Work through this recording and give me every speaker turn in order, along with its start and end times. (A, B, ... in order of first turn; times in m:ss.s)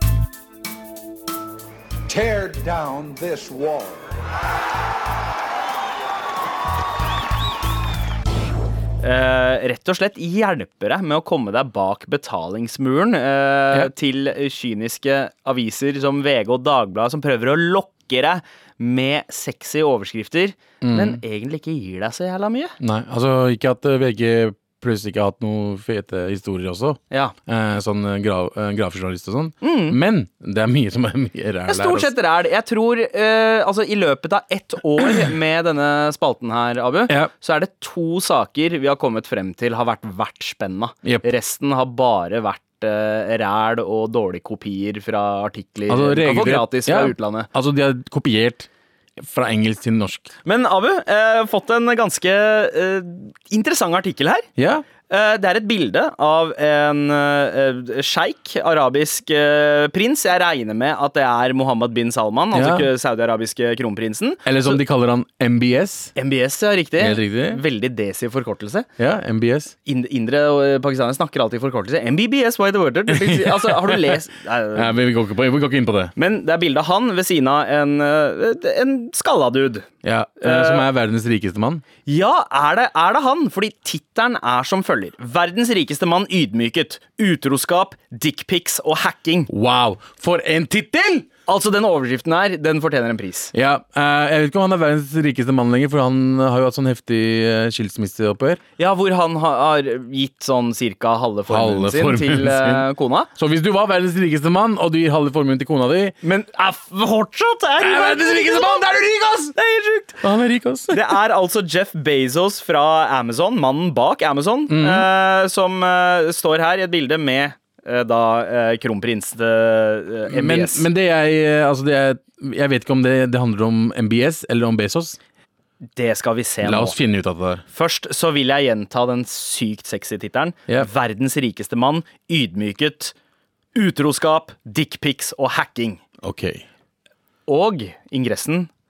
0:02.1-0:04.0 A
0:09.0-0:22.7 B
0:20.8-0:21.2 C
0:22.8-0:32.1 C
0:29.6-0:30.0 B
0:31.7-0:47.5 B
0:45.9-0:50.3 C
0:50.4-0:54.5 B
0:54.6-0:54.8 C
0:55.1-1:04.8 B
1:02.5-1:02.9 C
1:04.4-1:06.1 C
1:06.1-1:08.9 B
1:07.0-1:07.6 C
1:09.0-1:09.7 C
1:09.8-1:15.0 B
1:13.1-1:14.2 C
1:14.7-1:16.1 C
1:16.2-1:19.9 B
1:20.0-1:21.8 C
1:20.4-1:20.9 B
1:22.0-1:29.5 B
1:29.5-1:31.3 C
1:31.5-1:33.5 B
1:33.5-1:38.6 C
1:38.8-1:43.3 B
1:41.5-1:46.2 C
1:46.2-1:50.2 B
1:47.8-1:49.3 C
1:50.2-1:51.2 C
1:50.9-2:00.8 B
1:54.7-1:55.0 C
2:00.3-2:05.2 C
2:06.0-2:07.0 B
2:06.6-2:07.6 C
2:07.7-2:13.1 B
2:13.7-2:16.0 B
2:16.2-2:16.6 C
2:17.5-2:18.7 B